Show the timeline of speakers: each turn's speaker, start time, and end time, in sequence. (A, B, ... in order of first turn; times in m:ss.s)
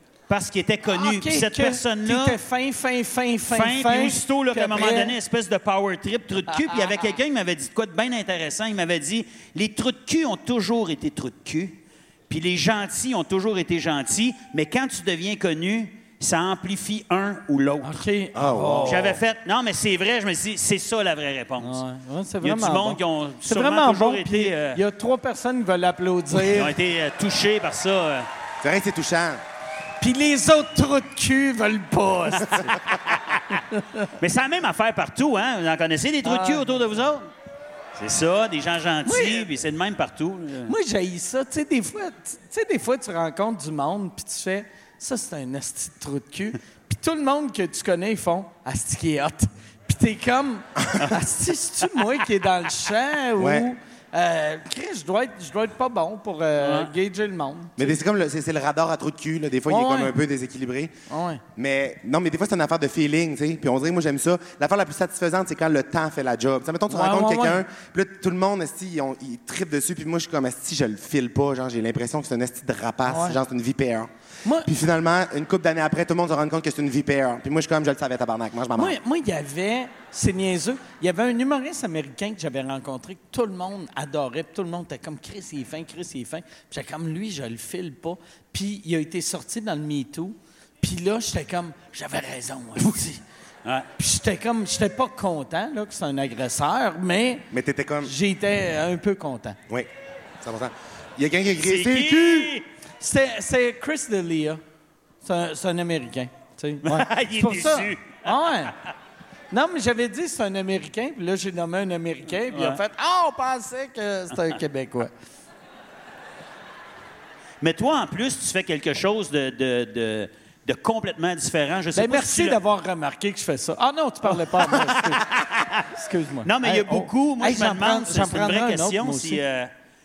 0:00.3-0:02.4 A
0:00.9-0:05.1 B
0:03.5-0:18.0 A
0:17.8-0:19.1 B
0:18.4-0:19.2 C
0:18.8-0:21.8 A
0:21.6-0:26.7 B
0:22.4-0:24.8 A
0:26.4-0:28.3 A
0:28.6-0:29.4 C
0:30.0-0:32.7 B
0:33.7-0:34.1 B
0:34.2-0:37.3 A
0:36.2-0:36.7 B
0:38.0-0:40.7 A
0:39.0-0:39.5 B
0:40.7-0:58.0 B
0:53.4-0:53.7 C
0:56.6-0:56.9 A
0:57.8-1:00.9 C
0:59.7-1:00.2 B
1:01.1-1:01.4 B
1:01.6-1:14.1 C
1:06.9-1:07.6 B
1:13.1-1:13.4 B
1:14.4-1:14.7 B
1:14.7-1:19.0 C
1:18.8-1:33.2 B
1:34.0-1:37.5 B
1:37.5-1:38.1 C
1:38.0-1:39.6 B
1:40.4-1:42.5 C
1:41.6-1:42.6 A
1:43.0-1:44.6 B
1:45.2-1:48.7 B
1:46.8-1:48.2 A
1:49.5-1:55.1 B
1:52.5-1:52.8 A
1:57.6-2:02.6 A
2:02.0-2:05.2 B
2:05.9-2:09.4 B
2:06.4-2:09.7 A